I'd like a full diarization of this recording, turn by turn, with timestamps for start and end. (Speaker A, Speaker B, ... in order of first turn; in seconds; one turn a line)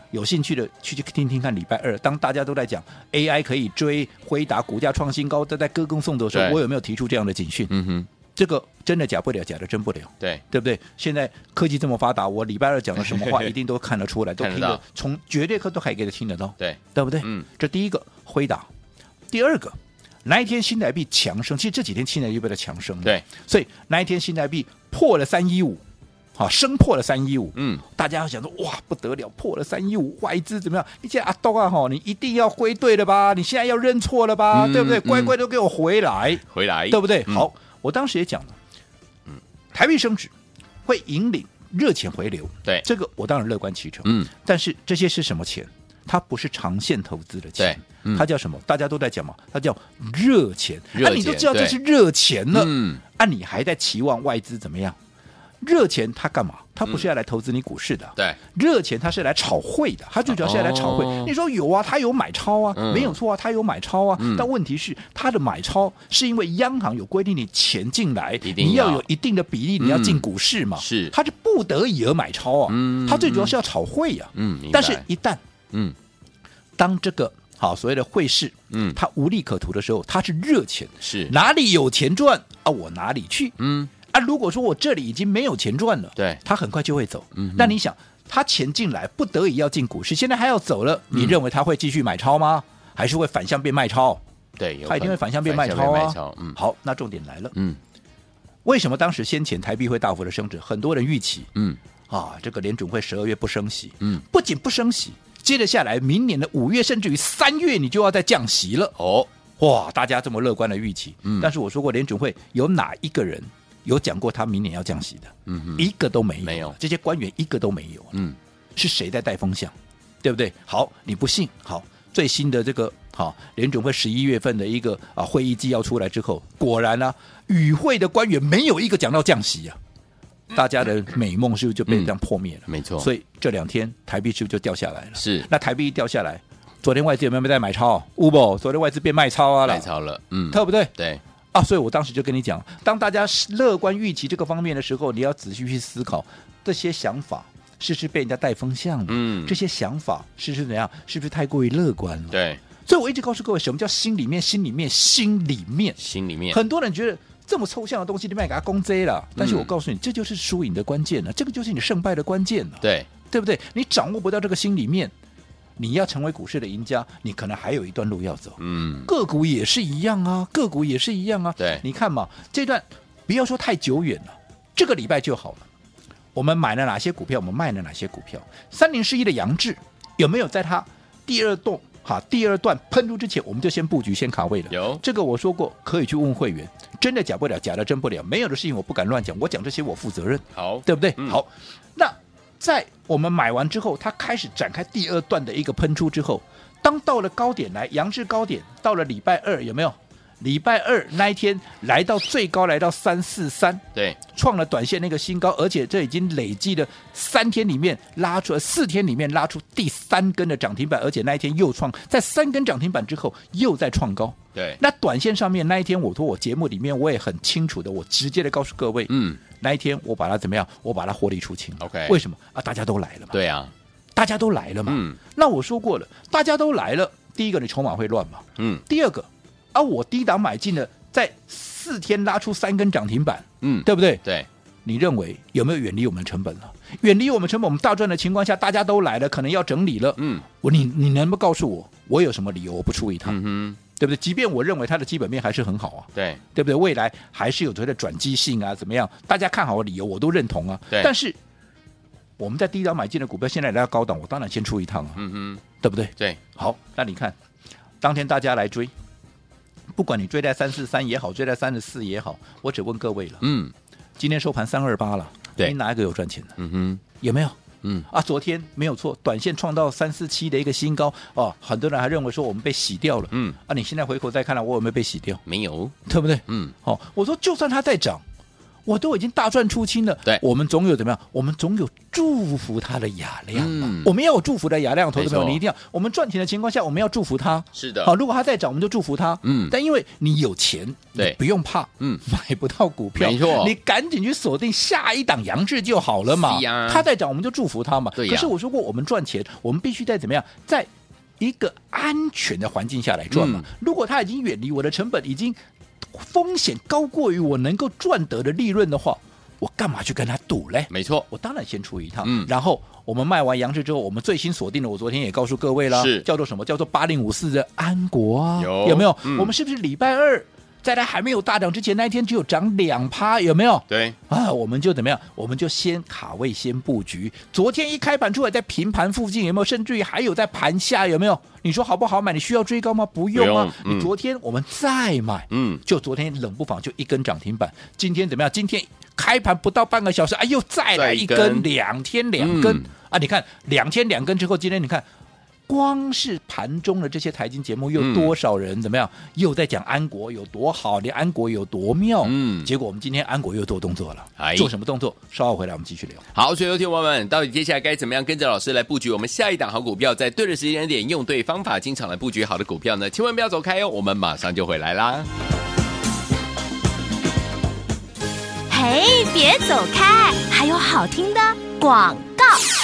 Speaker A: 0.1-7.7
Speaker B: 6.3-6.6
Speaker B: 7.7-8.1
Speaker A: 8.3-18.7
Speaker B: 13.0-13.5
Speaker B: 14.4-14.8
Speaker B: 16.6-17.5
Speaker A: 19.3-25.8
Speaker A: 26.4-38.6
Speaker B: 27.6-27.8
Speaker B: 34.5-35.4
Speaker B: 36.5-37.5
Speaker A: 39.7-40.3
Speaker A: 40.9-55.0
Speaker B: 44.0-44.3
Speaker B: 47.6-48.3
Speaker B: 51.0-51.8
Speaker B: 52.5-53.0
Speaker A: 55.6-75.4
Speaker B: 60.3-61.3
Speaker B: 62.8-63.2
Speaker B: 64.2-64.5
Speaker B: 68.4-69.1
Speaker B: 69.8-71.1
Speaker B: 72.7-73.6
Speaker B: 74.3-75.0
Speaker A: 76.8-83.6
Speaker B: 78.7-79.0
Speaker B: 81.0-81.3
Speaker B: 83.6-83.9
Speaker A: 84.1-94.2
Speaker B: 86.2-86.4
Speaker B: 87.3-87.8
Speaker B: 91.1-91.4
Speaker B: 94.6-96.6
Speaker A: 94.9-97.5
Speaker B: 97.5-97.8
Speaker A: 98.7-101.5
Speaker A: 102.1-109.0
Speaker B: 109.0-109.3
Speaker A: 109.6-118.2
Speaker B: 111.2-111.5
Speaker B: 115.5-115.9
Speaker B: 116.4-116.8
Speaker A: 118.8-129.8
Speaker A: 130.5-139.9
Speaker B: 131.9-132.1
Speaker B: 132.7-133.1
Speaker B: 135.2-135.5
Speaker B: 139.7-141.2
Speaker A: 140.5-140.9
Speaker A: 141.5-156.0
Speaker B: 149.1-149.6
Speaker B: 152.3-152.6
Speaker B: 156.0-156.6
Speaker A: 156.5-165.1
Speaker B: 159.4-159.7
Speaker B: 162.8-163.1
Speaker A: 165.8-175.7
Speaker B: 168.6-169.1
Speaker B: 171.6-171.8
Speaker A: 176.3-223.4
Speaker B: 184.7-185.0
Speaker B: 190.5-191.4
Speaker B: 214.6-214.8
Speaker B: 219.1-219.4
Speaker B: 221.8-222.2
Speaker B: 223.3-223.7
Speaker A: 224.2-234.2
Speaker B: 224.9-225.2
Speaker B: 228.6-228.8
Speaker B: 233.6-234.5
Speaker A: 234.8-243.4
Speaker B: 240.2-240.4
Speaker B: 243.2-243.8
Speaker A: 243.9-251.4
Speaker B: 246.2-246.4
Speaker A: 252.4-255.2
Speaker B: 255.2-255.6
Speaker A: 255.8-257.4
Speaker A: 258.0-258.9
Speaker A: 259.9-263.4
Speaker B: 263.4-263.7
Speaker A: 264.2-266.6
Speaker B: 266.6-267.0
Speaker A: 267.2-275.4
Speaker B: 273.3-273.6
Speaker B: 275.5-276.0
Speaker A: 276.1-278.2
Speaker B: 276.5-276.7
Speaker A: 278.9-300.9
Speaker B: 283.5-284.1
Speaker B: 285.1-285.6
Speaker B: 287.8-288.1
Speaker B: 289.4-289.7
Speaker B: 293.2-293.8
Speaker B: 296.3-297.1
Speaker B: 298.2-298.5
Speaker A: 301.4-305.6
Speaker B: 303.3-303.7
Speaker A: 306.1-345.1
Speaker B: 310.9-311.3
Speaker B: 312.2-312.5
Speaker B: 315.9-316.3
Speaker B: 318.6-319.5
Speaker B: 323.9-324.2
Speaker B: 333.3-334.1
Speaker B: 335.5-335.8
Speaker B: 340.9-341.7
Speaker B: 342.4-342.9
Speaker A: 345.7-356.2
Speaker B: 348.0-348.3
Speaker B: 352.2-352.7
Speaker B: 354.4-354.7
Speaker B: 356.3-365.3
Speaker C: 368.7-372.6